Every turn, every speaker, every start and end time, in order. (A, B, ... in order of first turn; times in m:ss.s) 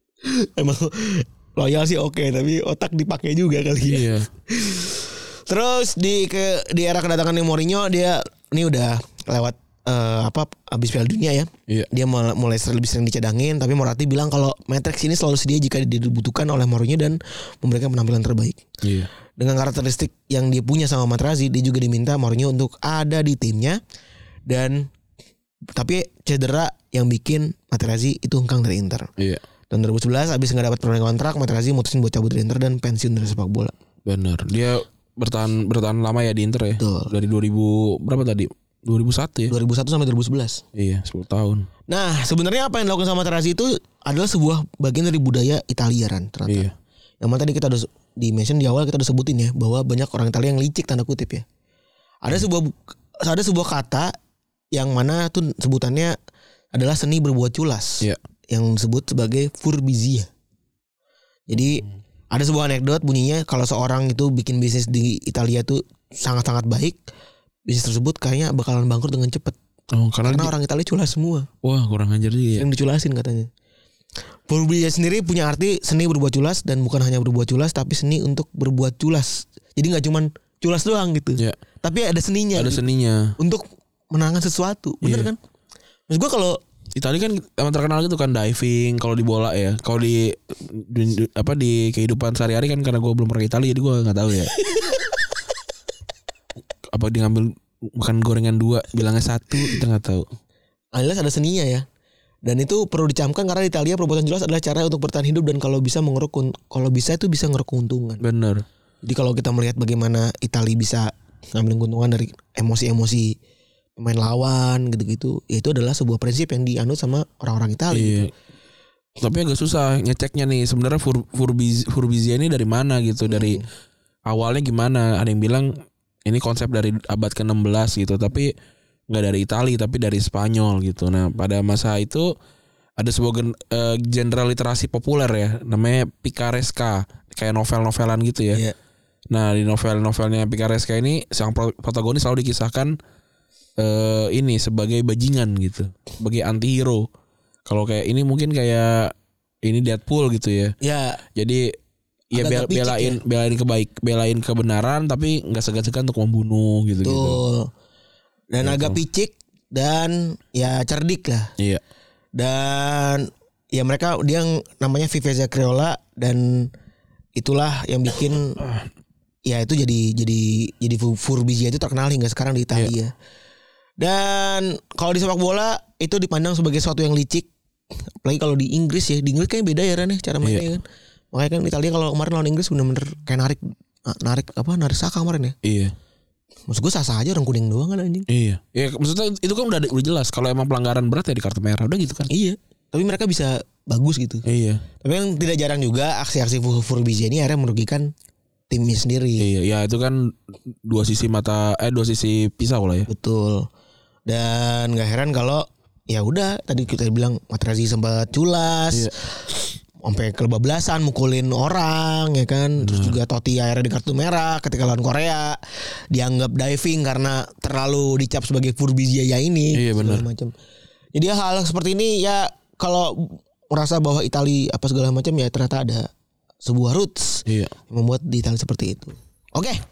0:00.2-0:18.6 A
0:03.9-0:04.3 B
0:18.8-0:19.1 B
0:19.4-0:23.8 A
0:24.5-0:24.9 A
0:25.8-0:29.1 A
0:29.2-0:29.4 B
0:29.7-0:33.7 A
0:34.1-0:39.5 B
0:36.8-0:37.1 A
0:39.5-0:40.6 A
0:40.8-0:41.7 B
0:41.9-0:51.4 A
0:46.5-0:46.7 B
0:52.2-0:54.1 A
0:54.7-0:56.2 A
0:56.7-1:00.3 A
1:01.5-1:07.0 A
1:07.7-1:09.6 A
1:09.9-1:10.5 B
1:10.2-1:11.5 A
1:11.6-1:12.7 B
1:12.6-1:13.5 A
1:14.5-1:22.8 A
1:22.6-1:23.3 B
1:23.4-1:25.4 A
1:25.0-1:25.3 B
1:26.1-1:26.6 A
1:27.0-1:34.5 B
1:34.6-1:34.9 A
1:36.9-1:40.2 B
1:41.0-1:41.8 A
1:42.4-1:48.2 A
1:48.2-1:48.6 B
1:49.0-1:53.4 A
1:54.0-1:58.3 A
1:57.9-1:58.3 B
1:59.2-2:03.6 B
2:03.3-2:03.6 A
2:04.3-2:05.7 B
2:06.2-2:08.5 B
2:09.1-2:12.3 B
2:13.0-2:18.6 B
2:19.3-2:23.0 B
2:23.8-2:27.1 B
2:27.7-2:30.8 B
2:30.8-2:31.2 A
2:31.4-2:31.8 B
2:32.3-2:37.4 B
2:32.3-2:33.2 A
2:37.0-2:37.7 A
2:38.5-2:41.5 A
2:38.6-2:39.0 B
2:42.4-2:46.7 A
2:47.4-2:48.6 A
2:48.6-2:48.8 B
2:49.5-2:53.1 A
2:54.0-2:57.5 A
2:58.2-3:05.6 A
3:00.4-3:00.7 B
3:05.6-3:06.0 B
3:06.7-3:08.3 A
3:08.3-3:12.3 B
3:12.3-3:14.4 A
3:14.5-3:14.8 B
3:15.0-3:18.1 A
3:18.7-3:19.4 A
3:19.4-3:23.1 B
3:23.1-3:23.7 A
3:24.3-3:35.6 A
3:32.8-3:33.2 B
3:36.1-3:40.5 A
3:39.7-3:40.3 B
3:41.2-3:46.1 A
3:46.6-3:49.8 A
3:47.5-3:47.7 B